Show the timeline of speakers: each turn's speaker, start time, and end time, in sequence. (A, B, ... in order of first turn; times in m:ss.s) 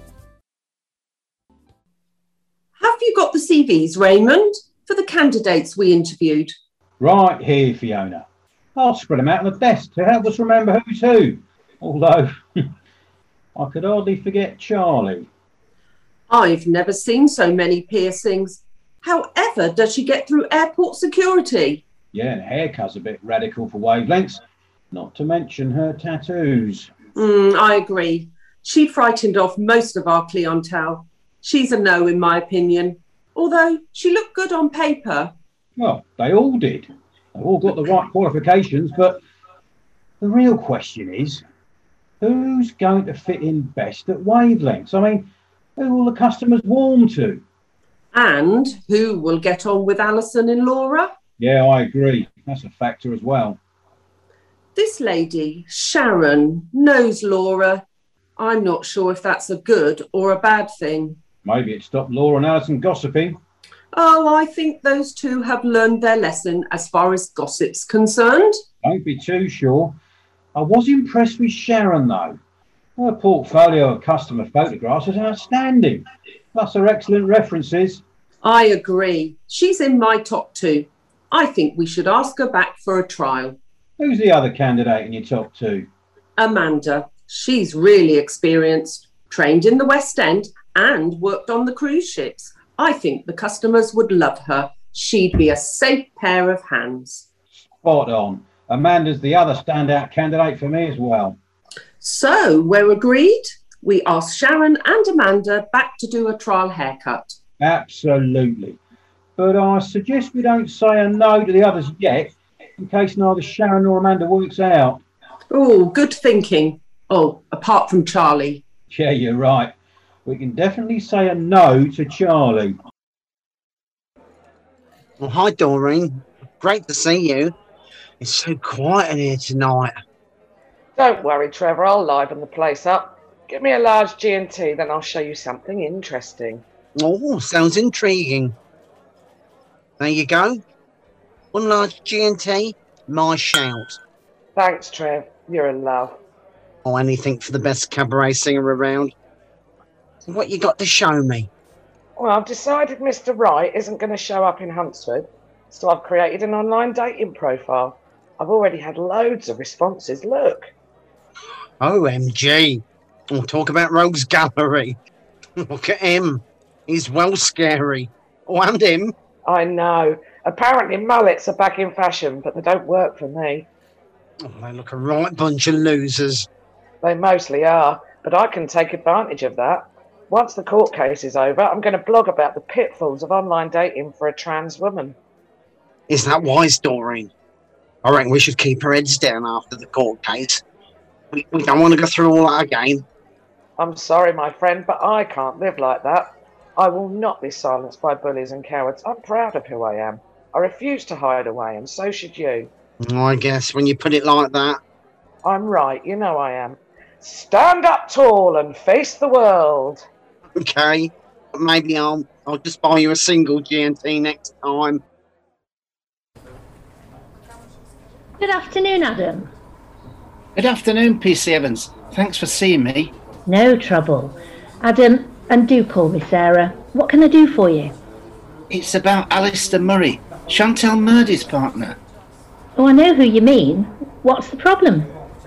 0:02.8-0:06.5 A
0:07.0-0:12.6 B
0:13.5-0:15.3 B
0:16.3-0:21.8 A
0:22.1-0:26.9 B
0:27.2-0:35.3 A
0:35.8-0:39.2 B
0:40.2-0:41.4 B
0:42.2-0:47.4 B
0:48.1-0:51.1 A
0:51.4-0:53.6 B
0:54.8-0:57.8 A
0:58.4-1:01.2 A
1:01.4-1:03.4 B
1:03.9-1:08.5 A
1:08.8-1:10.0 B
1:10.5-1:12.4 B
1:13.0-1:18.0 B
1:18.4-1:23.6 A
1:24.0-1:25.9 B
1:26.4-1:37.2 A
1:37.8-1:41.4 B
1:42.0-1:47.4 A
1:47.6-1:48.8 B
1:49.4-1:55.0 B
1:55.5-1:58.6 A
1:58.9-1:59.7 B
2:00.2-2:02.8 B
2:05.2-2:07.5 C
2:08.2-2:09.9 C
2:11.0-2:16.6 D
2:17.0-2:18.5 C
2:20.0-2:20.6 C
2:21.5-2:24.0 C
2:24.6-2:26.2 D
2:26.8-2:29.1 C
2:30.3-2:31.5 C
2:32.2-2:40.7 D
2:41.8-2:45.0 C
2:45.6-2:49.1 C
2:49.4-2:53.7 D
2:54.4-2:56.5 C
2:57.0-3:05.1 D
3:06.1-3:07.3 C
3:08.0-3:10.6 C
3:11.3-3:13.0 C
3:13.8-3:22.7 D
3:23.0-3:24.8 C
3:25.4-3:30.0 D
3:30.6-3:35.0 C
3:38.4-3:39.5 E
3:40.6-3:43.1 F
3:43.4-3:47.9 E
3:48.7-3:52.0 F
3:52.8-3:55.1 E